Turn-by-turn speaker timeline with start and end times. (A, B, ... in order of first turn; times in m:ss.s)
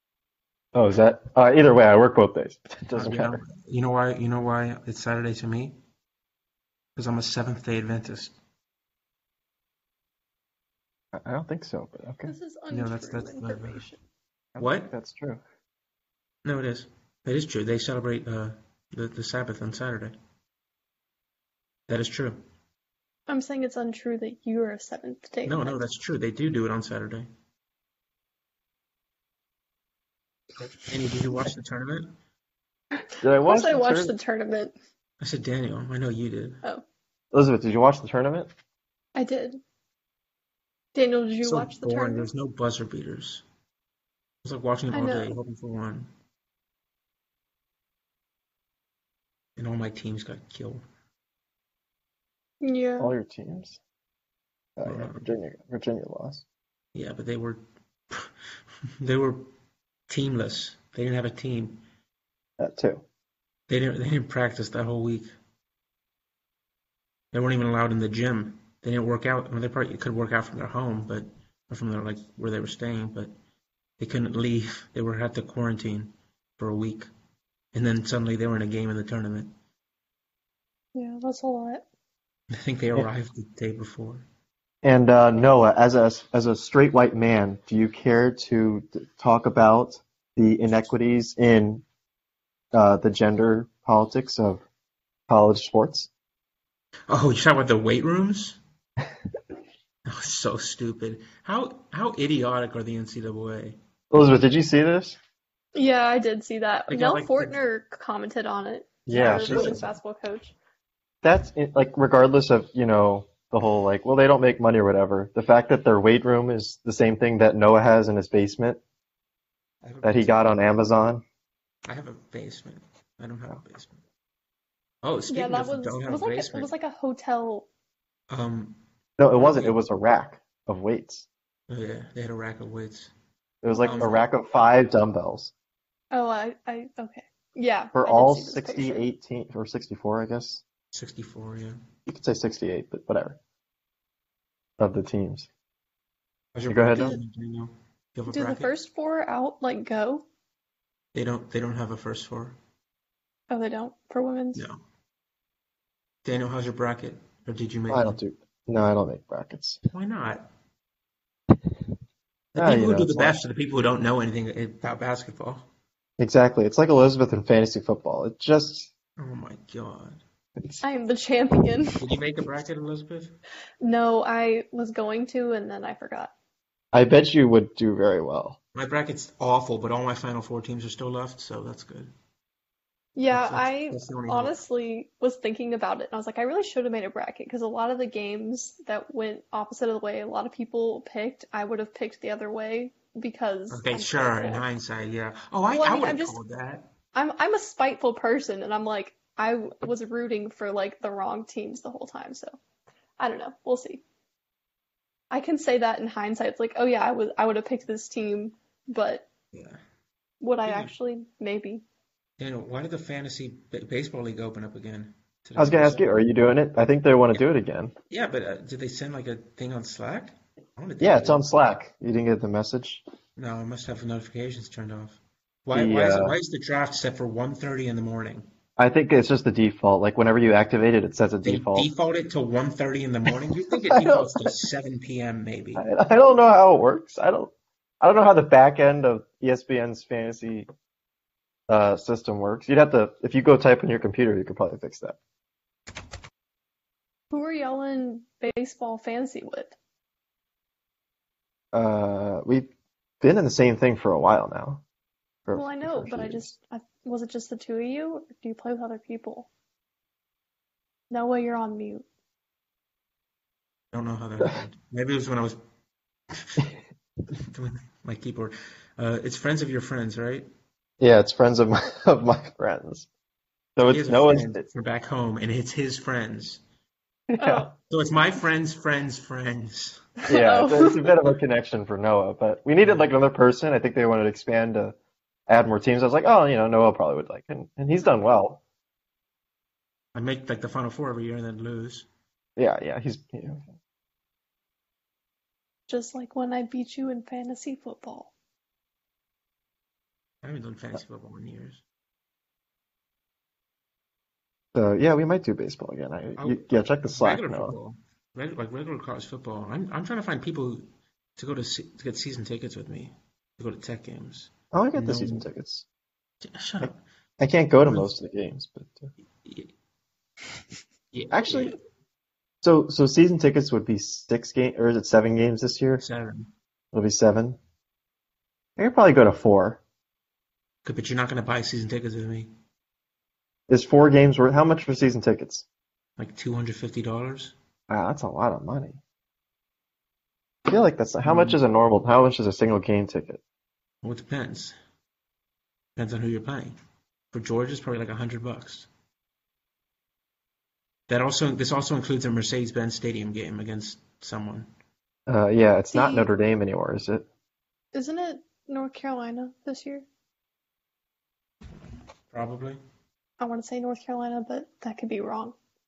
0:00.7-0:03.4 A
0:02.9-0:05.8 B
0:07.0-0:08.4 B
0:11.1-0:12.3 A
0:12.2-0:14.0 C
0:12.7-0:13.8 B
0:14.5-0:15.4 A
0:14.6-0:14.9 B
0:16.4-0:20.1 B
0:21.9-0:22.4 B
0:23.3-0:25.8 C
0:25.4-0:27.3 B
0:30.8-0:32.1 B
0:33.2-0:34.1 A
0:33.4-0:34.7 C
0:35.2-0:36.6 B
0:37.3-0:38.5 A
0:39.1-0:39.6 C
0:40.9-0:42.3 C
0:41.4-0:43.4 B
0:44.4-0:46.1 B
0:44.9-0:45.3 C
0:49.6-0:50.8 B
0:52.6-0:53.1 C
0:53.0-0:53.8 A
0:54.8-0:56.4 A
0:54.8-0:55.3 B
0:56.9-0:58.3 B
0:59.0-0:59.5 B
1:00.1-1:01.8 B
1:02.6-1:03.0 A
1:03.7-1:05.3 B
1:07.3-1:13.3 B
1:14.0-1:17.1 B
1:17.7-1:19.5 B
1:20.9-1:21.8 C
1:22.5-1:24.2 B
1:24.8-1:31.8 A
1:32.7-1:34.6 A
1:35.3-1:36.1 A
1:37.1-1:38.6 B
1:40.0-1:43.8 B
1:44.1-1:45.2 A
1:45.7-1:50.5 C
1:46.9-1:47.6 B
1:49.1-1:49.8 A
1:49.1-1:49.8 B
1:51.2-1:58.8 A
1:59.8-2:00.6 B
2:00.0-2:01.2 A
2:01.8-2:04.0 B
2:05.0-2:06.7 B
2:05.3-2:07.7 C
2:08.3-2:08.8 B
2:09.2-2:11.3 A
2:09.3-2:09.8 B
2:11.7-2:13.1 B
2:13.6-2:15.5 A
2:13.7-2:14.2 C
2:13.8-2:14.2 B
2:16.1-2:19.0 C
2:17.9-2:20.6 A
2:20.9-2:21.9 B
2:22.0-2:23.4 A
2:24.8-2:25.5 A
2:26.5-2:28.7 B
2:26.7-2:27.2 A
2:28.3-2:30.2 C
2:31.1-2:32.6 B
2:33.5-2:34.6 C
2:36.2-2:38.2 B
2:37.9-2:39.8 A
2:39.9-2:40.4 B
2:42.5-2:43.4 A
2:42.5-2:45.7 B
2:46.2-2:48.9 A
2:49.2-2:50.2 B
2:50.6-2:50.8 A
2:50.8-2:52.0 C
2:52.0-2:53.4 B
2:53.8-2:56.3 C
2:56.9-2:58.6 A
2:58.7-3:02.1 B
3:03.2-3:14.6 C
3:03.3-3:04.6 B
3:13.7-3:16.9 B
3:15.7-3:16.4 C
3:17.1-3:22.6 C
3:23.2-3:24.0 C
3:25.3-3:29.3 C
3:29.5-3:29.8 B
3:30.4-3:31.8 C
3:30.6-3:30.9 B
3:32.4-3:36.1 B
3:35.6-3:37.9 A
3:38.1-3:41.5 B
3:41.0-3:43.0 A
3:43.4-3:48.5 B
3:45.7-3:46.4 A
3:48.8-3:51.9 A
3:51.4-3:55.8 B
3:53.7-3:54.5 A
3:55.8-4:00.7 A
4:01.7-4:05.2 A
4:07.3-4:09.8 C
4:11.7-4:12.7 A
4:13.2-4:14.8 A
4:15.4-4:16.5 A
4:15.5-4:19.5 C
4:21.1-4:22.0 C
4:23.9-4:25.6 B
4:26.3-4:26.6 B
4:27.3-4:30.5 B
4:31.0-4:33.1 A
4:33.8-4:34.6 A
4:33.8-4:36.6 B
4:37.3-4:37.7 A
4:37.4-4:37.7 C
4:37.9-4:40.1 B
4:40.2-4:41.2 C
4:40.3-4:45.0 A
4:42.8-4:43.1 B
4:45.5-4:48.6 A
4:50.1-4:52.1 B
4:52.6-4:53.7 A
4:55.9-4:58.3 C
5:00.4-5:01.8 B
5:04.7-5:07.7 A
5:06.4-5:10.8 B
5:11.4-5:15.4 B
5:14.7-5:15.8 A
5:16.4-5:17.0 B
5:16.8-5:19.1 A
5:17.8-5:18.1 B
5:19.4-5:19.7 B
5:21.1-5:21.8 B
5:21.3-5:21.7 A
5:22.6-5:26.0 A
5:26.0-5:26.5 B
5:26.9-5:27.6 A
5:28.8-5:29.8 A
5:30.8-5:32.5 B
5:33.7-5:35.6 A
5:36.2-5:37.5 B
5:37.9-5:39.0 A
5:40.6-5:43.4 A
5:41.2-5:41.6 B
5:44.0-5:44.7 B
5:46.0-5:46.8 B
5:47.3-5:48.9 B
5:51.1-5:54.7 B
5:55.3-5:57.2 A
5:55.9-5:56.3 C
5:57.9-6:00.0 C
6:02.3-6:02.8 B
6:03.4-6:05.5 C